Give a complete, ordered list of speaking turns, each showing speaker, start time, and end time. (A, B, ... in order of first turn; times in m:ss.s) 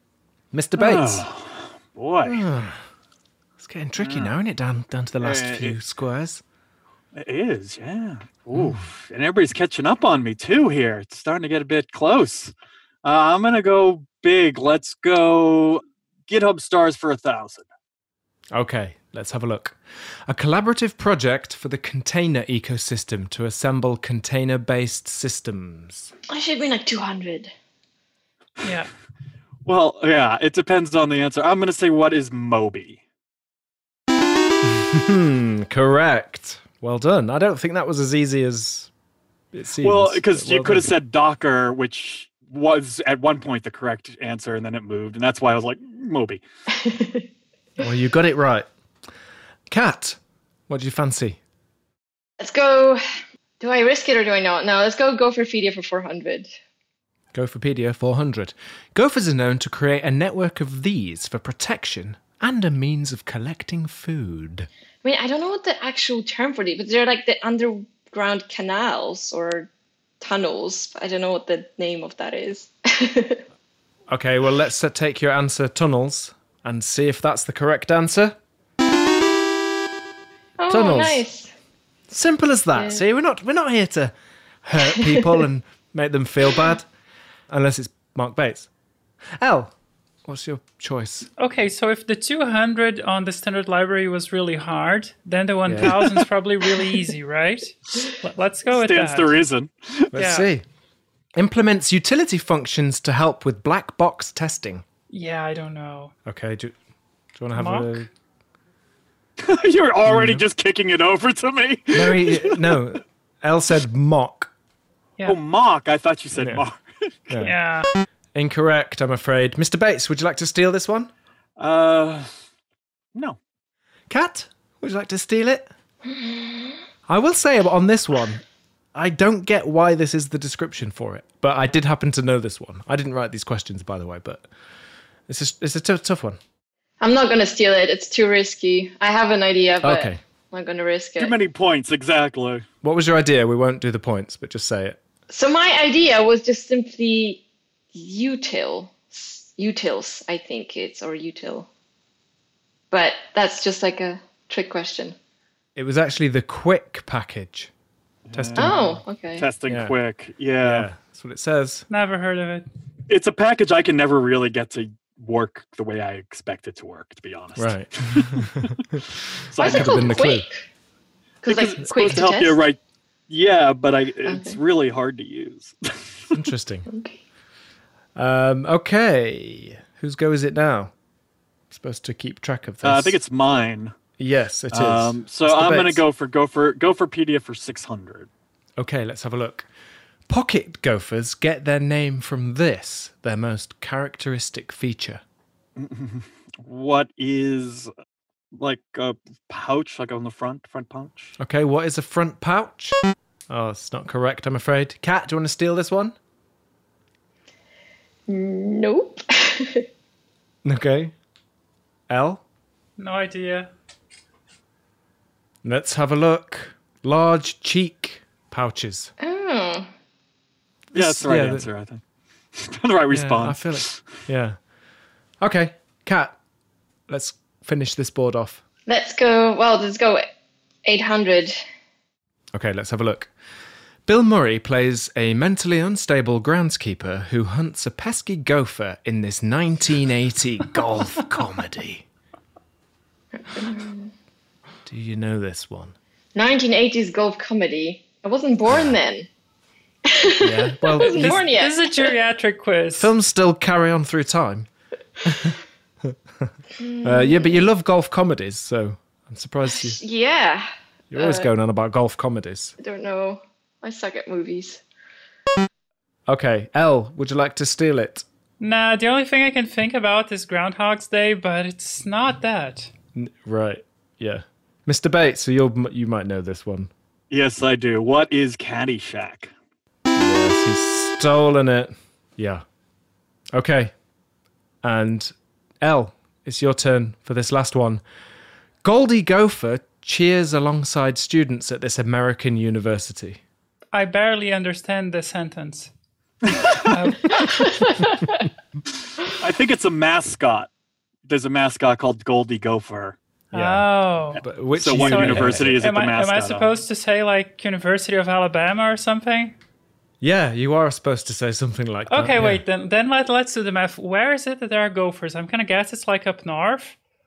0:00.5-0:01.3 A
0:00.8-0:02.4 B
0:02.2-0:02.8 A
0:03.6-0:06.4 A
0:04.0-0:04.3 B
0:05.2-0:05.8 B
0:07.2-0:12.5 B
0:08.5-0:08.8 A
0:13.0-0:17.6 B
0:18.5-0:26.1 A
0:26.3-0:27.5 C
0:28.6-0:28.9 D
0:29.6-0:33.0 B
0:34.7-0:38.9 A
0:39.5-0:40.9 A
0:39.8-0:46.4 B
0:46.7-0:47.3 C
0:47.8-0:48.7 A
0:49.7-0:50.2 A
0:50.7-0:51.4 A
0:52.4-0:53.0 C
0:53.6-0:56.5 C
0:57.3-1:04.7 A
1:05.0-1:09.7 C
1:10.2-1:13.4 C
1:14.1-1:18.4 A
1:20.6-1:21.5 C
1:20.7-1:21.2 A
1:22.1-1:24.1 A
1:24.6-1:26.9 A
1:27.5-1:28.7 A
1:29.4-1:29.7 A
1:30.3-1:31.3 A
1:31.4-1:39.4 D
1:35.7-1:36.0 A
1:38.7-1:40.1 B
1:40.1-1:40.6 A
1:40.2-1:40.5 D
1:41.4-1:44.8 A
1:45.1-1:46.1 D
1:46.3-1:46.8 A
1:47.4-1:48.1 A
1:47.6-1:48.0 D
1:49.4-1:52.7 B
1:50.1-1:50.4 A
1:51.9-1:54.5 A
1:55.3-1:56.8 B
1:56.4-1:56.6 A
1:57.3-1:57.5 A
1:57.4-1:57.9 D
1:58.3-2:01.1 A
2:01.6-2:02.3 B
2:04.1-2:05.7 A
2:06.1-2:06.8 C
2:07.1-2:08.4 A
2:08.9-2:14.5 A
2:15.3-2:16.4 A
2:17.0-2:21.4 C
2:19.8-2:20.2 A
2:21.2-2:22.6 B
2:22.8-2:25.0 A
2:25.3-2:27.4 C
2:27.9-2:31.7 C
2:32.9-2:35.2 C
2:35.8-2:37.7 A
2:38.3-2:38.9 B
2:38.3-2:38.9 A
2:38.6-2:39.5 C
2:39.4-2:40.9 B
2:39.7-2:40.0 A
2:40.6-2:41.9 A
2:41.9-2:42.7 D
2:43.1-2:48.7 B
2:47.6-2:49.1 A
2:49.5-2:50.2 B
2:49.6-2:50.5 A
2:49.6-2:50.6 C
2:51.4-2:52.8 B
2:51.4-2:52.6 C
2:53.3-2:56.2 B
2:54.3-2:54.6 C
2:56.3-2:56.9 A
2:56.9-2:57.2 C
2:58.2-3:00.9 A
3:01.7-3:03.2 A
3:02.8-3:03.9 B
3:04.2-3:06.0 A
3:04.7-3:08.3 B
3:08.8-3:09.7 A
3:10.3-3:15.2 A
3:15.8-3:17.9 B
3:18.6-3:21.3 B
3:21.4-3:23.0 A
3:23.5-3:26.2 A
3:28.3-3:29.9 C
3:30.6-3:31.1 A
3:32.1-3:32.4 A
3:33.0-3:33.7 D
3:35.6-3:39.1 A
3:39.2-3:39.9 C
3:40.9-3:41.7 A
3:40.9-3:42.0 B
3:42.6-3:44.0 B
3:43.1-3:44.6 A
3:45.4-3:46.4 A
3:47.1-3:48.6 A
3:48.9-3:50.2 C
3:50.8-3:51.6 C
3:52.5-3:53.3 A
3:54.1-4:02.1 A
4:03.3-4:04.1 C
4:04.9-4:06.0 A
4:06.4-4:09.3 C
4:08.7-4:09.0 A
4:10.1-4:12.1 C
4:10.4-4:11.4 A
4:11.1-4:13.1 D
4:13.0-4:14.7 A
4:15.2-4:16.5 A
4:16.8-4:17.7 C
4:17.0-4:20.0 A
4:19.8-4:21.5 C
4:21.1-4:22.8 A
4:22.8-4:24.8 C
4:26.3-4:28.2 A
4:28.6-4:32.9 D
4:33.2-4:36.9 A
4:37.3-4:39.5 B
4:40.2-4:42.6 A
4:43.5-4:43.9 A
4:44.8-4:48.0 A
4:48.8-4:53.4 A
4:53.9-4:55.9 D
4:56.4-4:57.0 B
4:56.7-4:57.9 D
4:57.6-4:58.2 C
4:59.4-5:00.7 B
5:01.2-5:03.2 B
5:03.5-5:09.6 D
5:03.5-5:03.9 A
5:04.4-5:05.8 A
5:04.8-5:06.8 B
5:10.2-5:12.6 A
5:12.1-5:17.0 D